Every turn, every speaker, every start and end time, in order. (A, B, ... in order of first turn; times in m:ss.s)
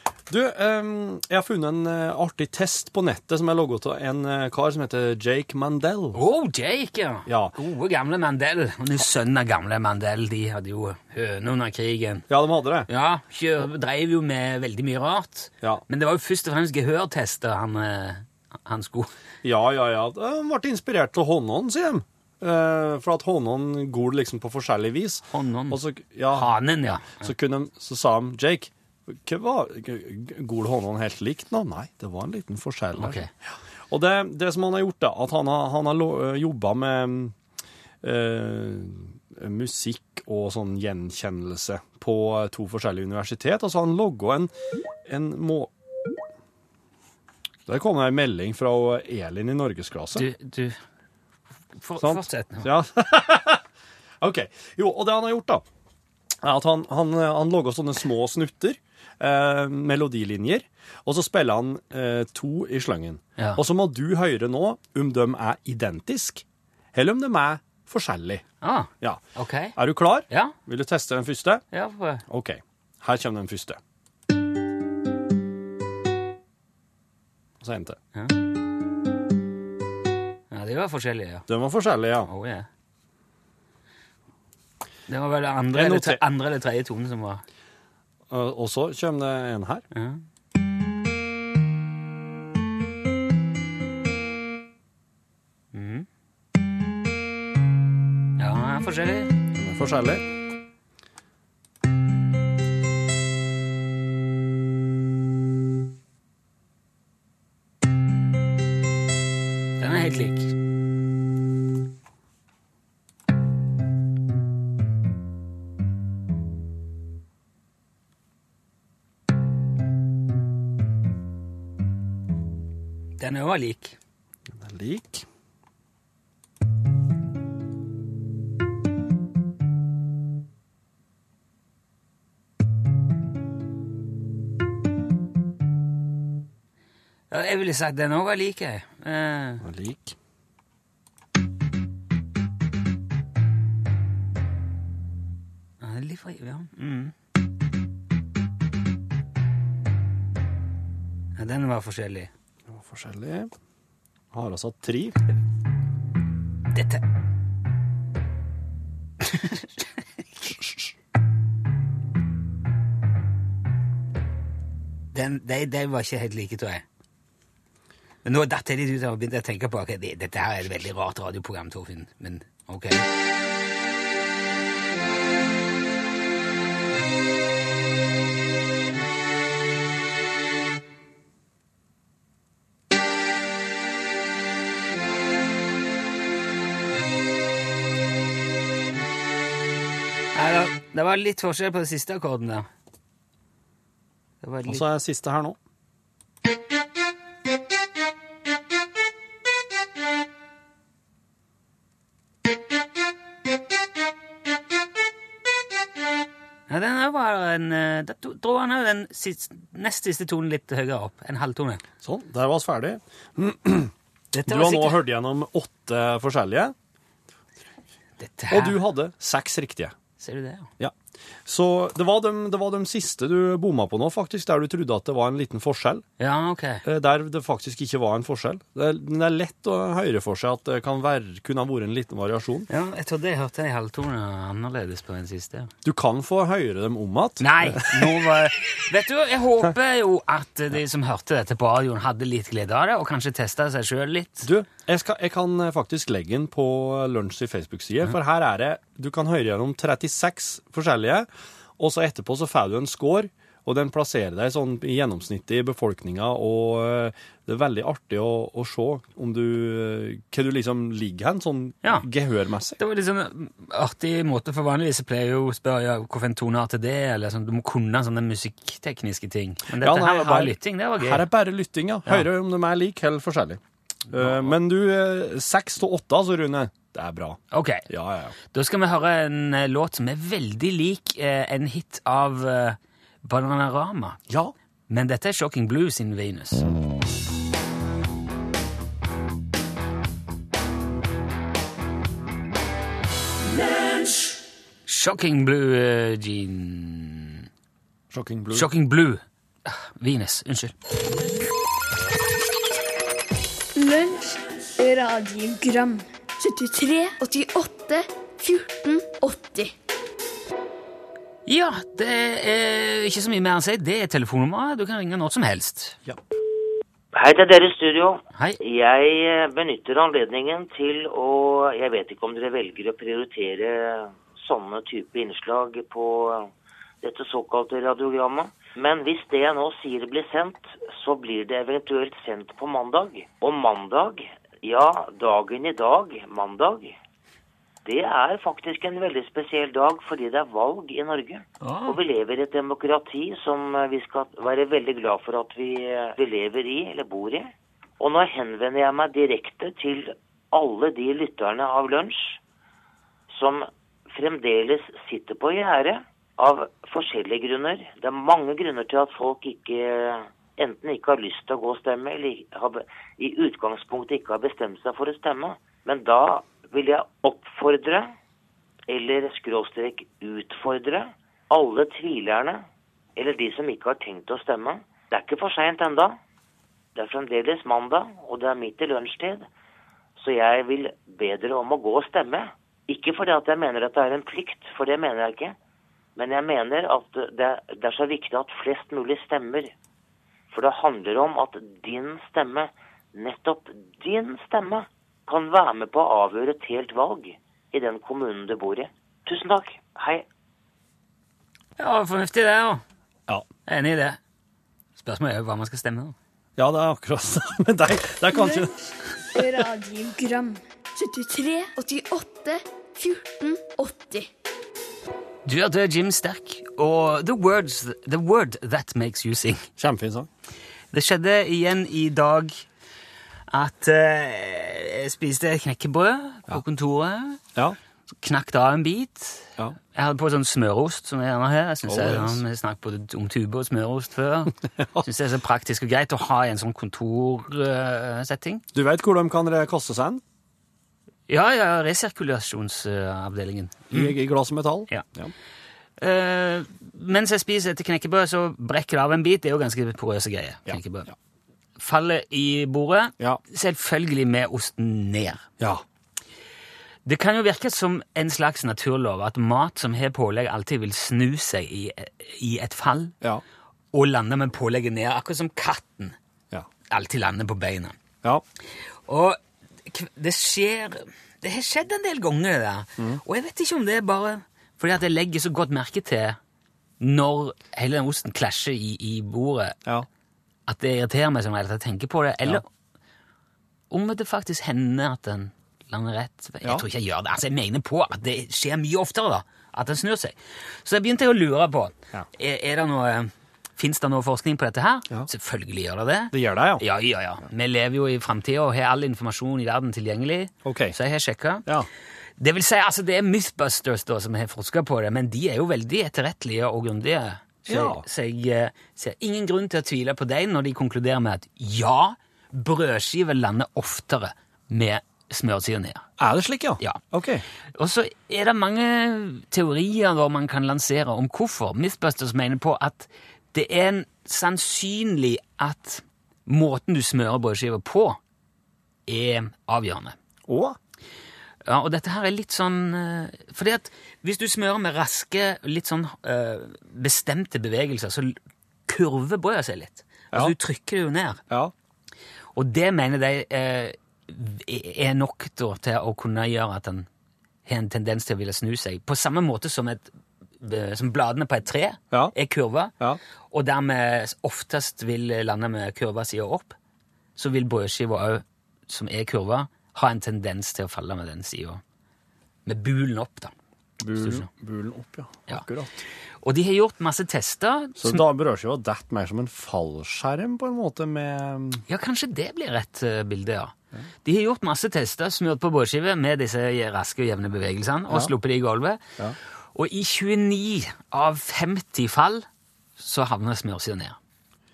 0:00.3-0:06.2 A
0:06.1-0:12.2 B
0:07.3-0:07.5 A
0:12.3-0:12.9 A
0:12.9-0:19.1 B
0:19.4-0:26.5 A
0:25.3-0:25.8 B
0:26.3-0:27.3 B
0:27.1-0:33.2 A
0:33.0-0:33.3 B
0:33.9-0:37.3 A
0:38.0-0:44.5 A
0:45.1-0:45.7 A
0:47.7-0:50.3 A
0:50.1-0:50.8 B
0:51.8-0:52.7 B
0:52.0-0:53.6 A
0:54.2-0:55.6 A
0:56.4-1:08.4 A
1:08.6-1:09.8 B
1:09.8-1:11.6 A
1:10.3-1:10.6 B
1:11.7-1:12.2 B
1:12.3-1:13.8 A
1:17.6-1:18.0 A
1:20.5-1:21.4 B
1:21.5-1:22.3 A
1:22.3-1:22.7 B
1:25.1-1:27.4 B
1:25.7-1:26.2 A
1:28.3-1:29.8 A
1:29.9-1:30.2 B
1:35.7-1:36.1 B
1:38.4-1:39.3 B
1:39.5-1:40.2 A
1:49.8-1:50.5 B
2:03.2-2:04.0 B
2:04.5-2:05.2 A
2:17.3-2:19.6 B
2:19.6-2:20.1 A
2:25.8-2:27.1 B
2:31.4-2:32.3 B
2:32.7-2:33.5 A
2:34.3-2:35.2 A
2:36.7-2:37.0 B
2:39.2-2:39.7 B
2:45.1-2:46.8 B
2:48.2-2:53.0 B
3:10.3-3:12.7 B
3:14.4-3:14.8 B
3:14.6-3:15.6 A
3:26.7-3:31.8 B
3:32.0-3:33.9 A
3:34.3-3:35.0 B
3:34.4-3:36.7 A
3:38.2-3:38.8 B
3:38.5-3:39.9 A
3:40.2-3:40.7 B
3:41.4-3:46.0 A
3:46.2-3:46.8 B
3:46.8-3:52.7 A
3:52.7-3:55.7 B
3:55.8-3:58.3 A
3:57.4-4:04.5 B
4:04.4-4:11.3 A
4:11.8-4:22.8 A
4:22.8-4:31.3 B
4:29.8-4:38.3 A
4:34.1-4:34.6 B
4:37.5-4:37.8 B
4:38.5-4:44.2 B
4:44.9-4:46.7 B
4:54.8-4:57.5 B
4:58.1-4:58.7 A
4:58.5-5:00.7 B
5:03.8-5:09.7 C
5:11.4-5:16.0 B
5:17.1-5:26.5 D
5:27.0-5:37.0 D
5:37.8-5:52.4 D
5:41.6-5:42.0 B
5:53.3-6:08.1 D
6:08.9-6:12.6 D
6:13.2-6:16.2 D
6:17.0-6:19.5 D
6:20.2-6:25.5 D
6:26.2-6:29.7 D
6:30.5-6:40.2 D
6:41.8-6:42.8 B
6:43.7-6:44.2 B
6:45.0-6:46.2 B
6:46.6-6:48.7 A
6:48.3-6:48.8 C
6:49.3-6:54.3 C
6:55.4-6:59.7 B
6:59.8-7:00.3 A
7:00.9-7:02.6 B
7:03.5-7:07.4 B
7:08.2-7:18.6 B
7:11.9-7:12.4 A
7:14.8-7:15.0 A
7:18.7-7:20.2 A
7:21.3-7:24.2 B
7:23.9-7:25.3 A
7:26.0-7:31.1 B
7:30.7-7:31.1 A
7:31.8-7:35.4 B
7:37.0-7:43.1 B
7:43.9-7:46.2 B
7:46.9-7:48.0 B
7:49.1-7:56.4 B
7:57.0-7:59.8 B
8:00.7-8:02.6 B
8:03.9-8:21.7 B
8:16.3-8:16.8 A
8:20.6-8:21.0 A
8:22.4-8:36.1 B
8:27.7-8:28.0 A
8:36.2-8:37.4 A
8:37.7-8:48.2 B
8:49.1-8:50.2 B
8:50.5-8:50.8 A
8:51.6-9:01.4 B
9:02.5-9:07.1 B
9:07.6-9:12.9 B
9:13.5-9:16.8 B
9:17.4-9:21.8 B
9:22.6-9:23.5 B
9:24.0-9:26.0 A
9:24.1-9:24.5 B
9:26.4-9:28.2 B
9:28.0-9:31.8 A
9:31.9-9:39.0 B
9:39.7-9:42.4 B
9:43.0-9:44.2 B